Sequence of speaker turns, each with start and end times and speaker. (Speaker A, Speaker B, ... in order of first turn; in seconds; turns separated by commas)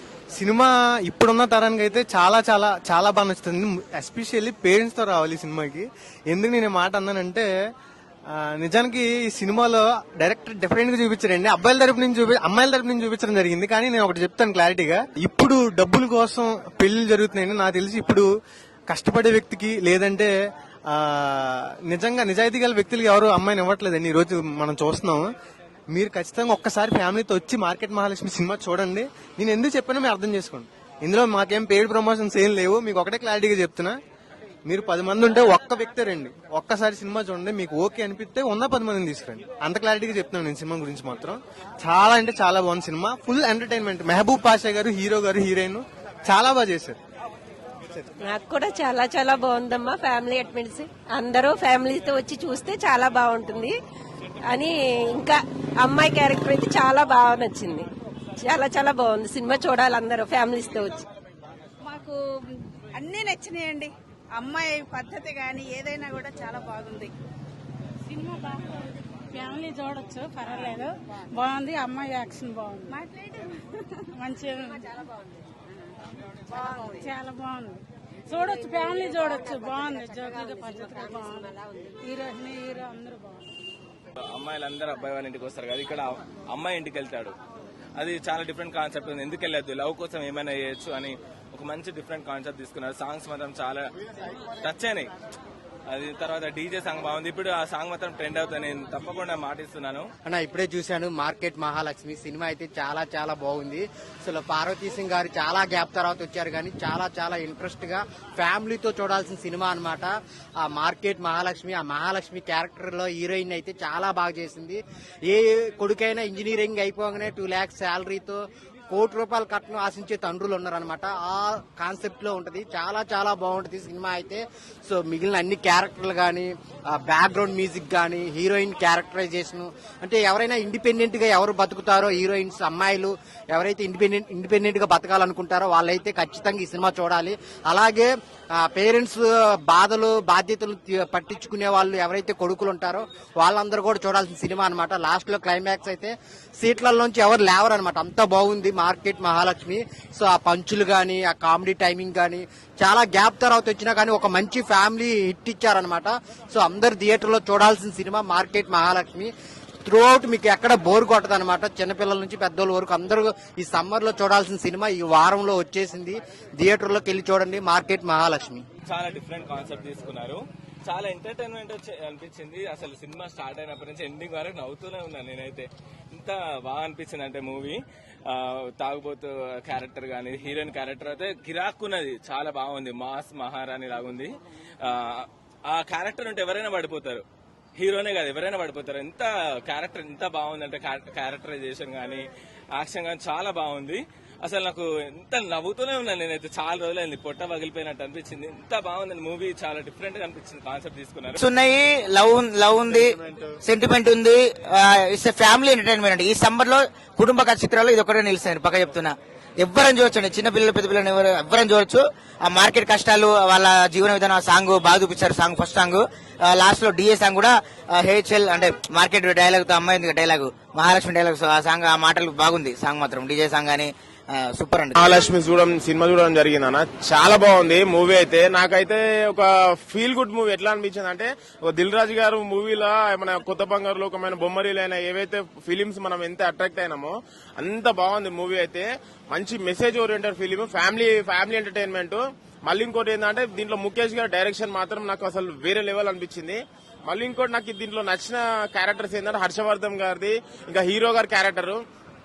Speaker A: 0.3-7.5, Speaker A: 8.3-18.3, Speaker A: 18.9-20.3, Speaker A: 20.9-25.3, Speaker A: 25.9-34.0, Speaker A: 34.7-47.0, Speaker B: 48.2-53.8, Speaker B: 54.4-57.9, Speaker B: 58.4-61.0, Speaker C: 61.8-62.2, Speaker C: 62.9-67.1, Speaker D: 68.1-68.8, Speaker D: 69.3-73.0, Speaker C: 72.9-73.9, Speaker D: 74.1-74.9, Speaker D: 76.9-83.4, Speaker E: 84.2-87.3, Speaker E: 88.0-93.8, Speaker E: 94.6-95.1, Speaker E: 95.9-100.1, Speaker F: 100.2-159.3, Speaker F: 159.8-168.6, Speaker E: 168.9-187.2, Speaker E: 187.8-201.4, Speaker G: 201.4-223.9, Speaker G: 224.5-224.9, Speaker H: 224.9-251.8